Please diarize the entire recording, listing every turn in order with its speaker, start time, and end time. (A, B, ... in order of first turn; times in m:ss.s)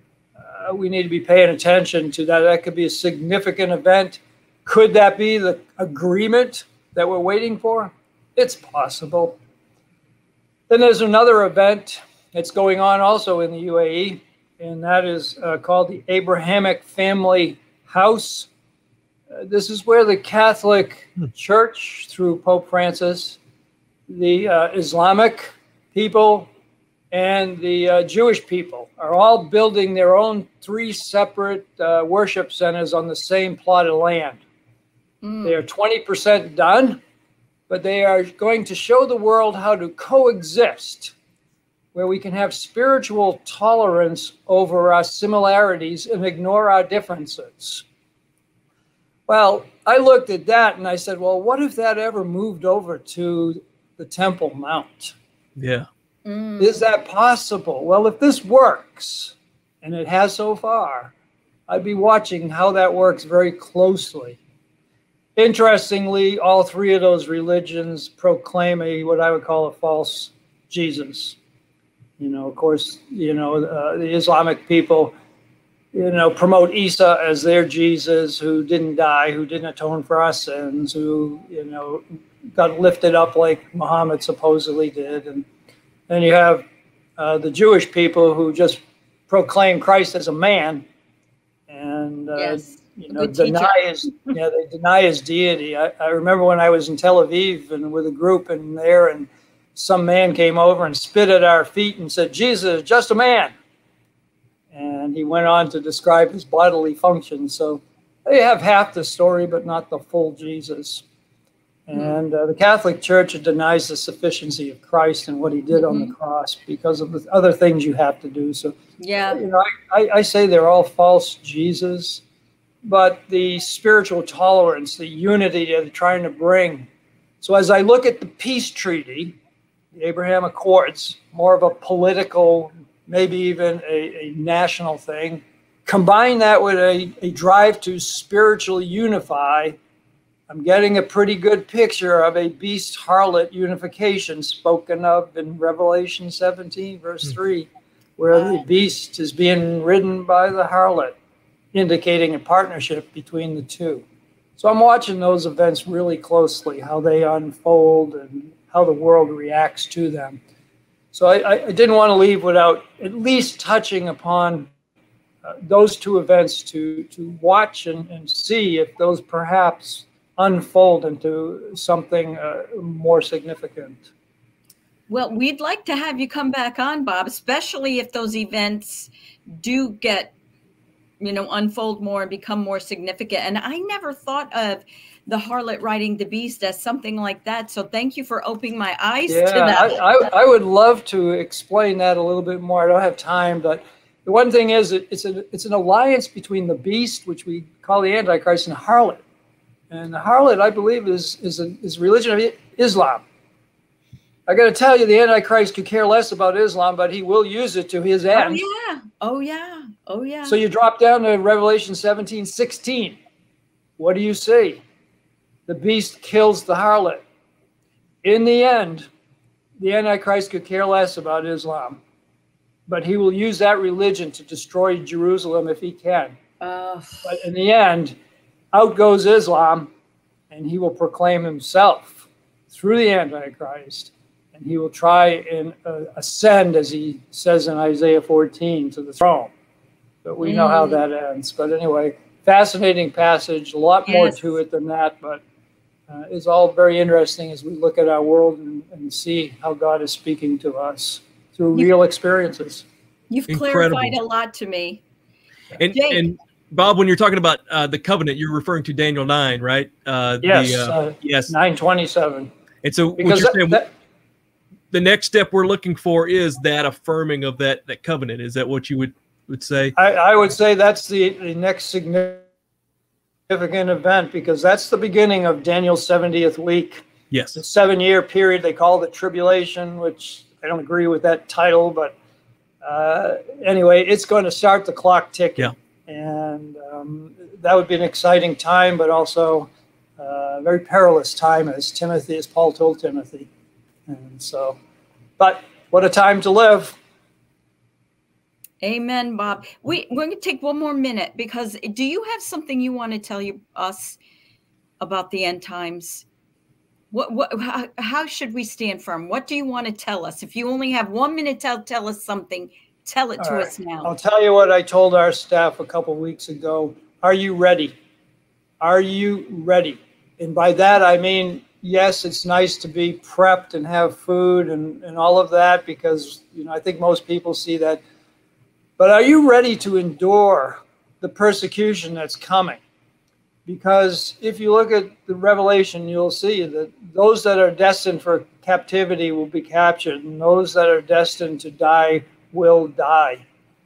0:00.4-0:09.4 A
0:10.7-0:18.5 A
0:19.3-0:23.4 A
0:24.1-0:26.5 A
0:27.1-0:34.4 A
0:35.2-0:35.6 B
0:35.4-0:37.0 A
0:37.7-0:41.1 A
0:41.9-0:47.8 A
0:49.3-0:55.2 A
0:55.6-0:55.9 C
0:56.3-0:56.8 B
0:56.6-1:01.1 A
1:01.7-1:04.4 A
1:05.4-1:11.4 A
1:12.2-1:15.1 A
1:15.9-1:25.5 A
1:26.1-1:26.6 A
1:27.2-1:30.8 A
1:31.7-1:43.5 A
1:32.3-1:34.4 B
1:44.7-1:51.0 A
1:51.9-1:58.8 A
1:51.9-1:52.2 B
1:55.7-1:56.1 B
1:59.0-1:59.4 B
1:59.3-2:02.2 A
2:02.8-2:06.9 A
2:07.4-2:09.4 A
2:09.9-2:19.8 A
2:20.5-2:31.2 A
2:31.7-2:34.0 A
2:34.6-2:40.4 A
2:41.1-2:44.7 A
2:45.4-2:54.1 A
2:55.1-3:00.3 B
3:01.2-3:10.3 B
3:09.3-3:19.2 A
3:19.9-3:23.2 A
3:24.5-3:28.6 A
3:28.3-3:30.6 B
3:30.4-3:33.2 A
3:34.0-3:34.8 A
3:35.7-3:37.2 A
3:38.2-3:39.1 A
3:39.8-3:42.0 A
3:42.9-3:46.4 A
3:46.6-3:47.4 B
3:47.2-3:48.2 A
3:48.7-3:49.9 A
3:50.5-3:59.5 A
4:00.2-4:05.4 A
4:00.4-4:01.0 B
4:04.1-4:04.4 B
4:06.1-4:12.8 A
4:13.3-4:15.0 B
4:13.5-4:14.2 C
4:15.8-4:21.5 C
4:15.9-4:16.3 B
4:20.4-4:22.5 A
4:22.8-4:23.8 C
4:23.2-4:23.9 A
4:24.9-4:30.0 C
4:30.0-4:32.5 A
4:33.5-4:37.0 A
4:37.3-4:37.6 C
4:37.6-4:42.2 A
4:42.8-4:53.5 A
4:54.1-4:54.8 A
4:55.4-4:57.0 A
4:58.8-5:04.2 B
5:05.0-5:06.2 B
5:07.1-5:14.1 B
5:13.4-5:18.0 A
5:18.8-5:28.0 A
5:29.0-5:32.8 A
5:33.7-5:43.4 A